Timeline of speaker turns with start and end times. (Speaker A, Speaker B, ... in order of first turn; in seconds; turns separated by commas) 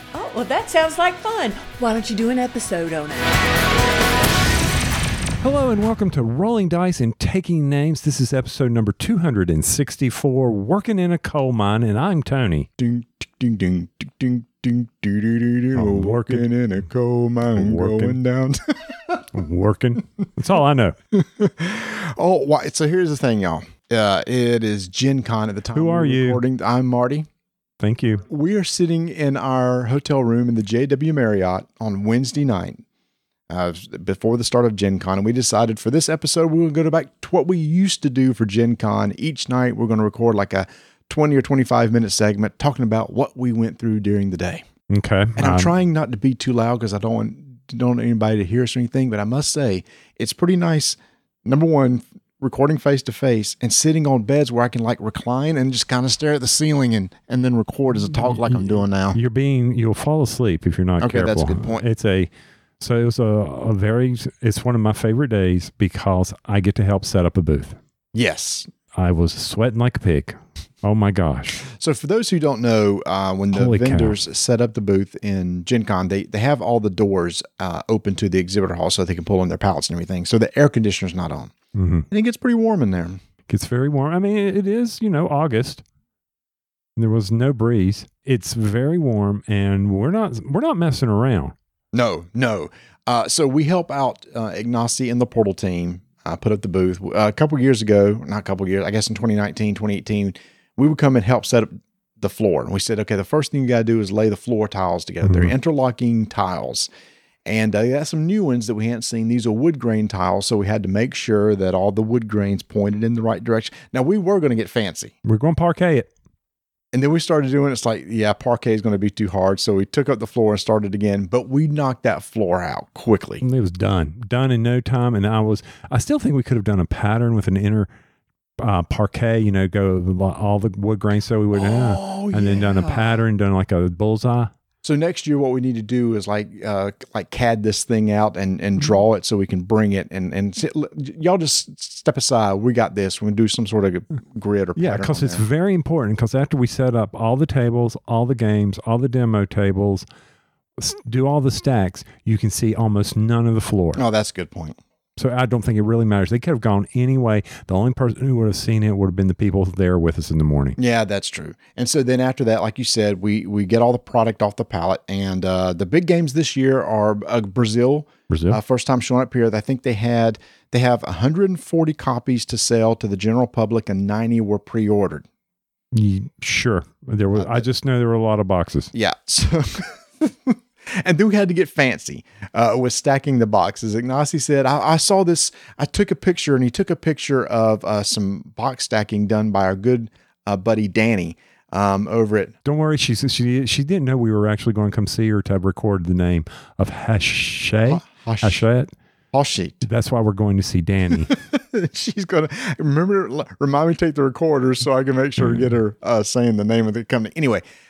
Speaker A: 0.1-3.4, Speaker B: 5.4-12.7, Speaker C: 12.8-19.3, Speaker B: 15.8-16.5, Speaker B: 17.5-18.2, Speaker B: 19.3-21.0, Speaker C: 21.1-27.3, Speaker B: 25.7-26.4, Speaker B: 27.8-28.2, Speaker C: 28.3-32.8, Speaker C: 33.5-44.6, Speaker B: 44.9-45.7, Speaker C: 45.4-59.2, Speaker B: 58.3-67.8, Speaker C: 61.0-61.9, Speaker C: 68.2-68.7, Speaker B: 69.0-71.6, Speaker C: 71.6-81.5, Speaker B: 73.5-74.2, Speaker B: 81.8-82.1, Speaker C: 82.1-83.2, Speaker B: 83.5-85.8, Speaker B: 87.0-91.5, Speaker C: 91.9-106.9, Speaker B: 105.2-105.5, Speaker C: 107.5-115.1, Speaker B: 115.2-116.1, Speaker C: 116.9-123.4, Speaker B: 123.4-127.9, Speaker B: 128.6-134.5, Speaker C: 131.5-133.2, Speaker C: 134.8-145.4, Speaker B: 144.8-150.1, Speaker B: 150.8-154.0, Speaker C: 154.0-154.8, Speaker B: 155.2-160.8, Speaker C: 160.8-175.2, Speaker B: 168.3-168.6, Speaker B: 175.9-178.9, Speaker C: 177.4-177.7, Speaker C: 178.9-192.5, Speaker B: 192.7-198.9, Speaker C: 197.9-198.7, Speaker C: 199.3-199.8, Speaker B: 199.8-201.3, Speaker C: 201.2-207.6, Speaker B: 205.4-205.7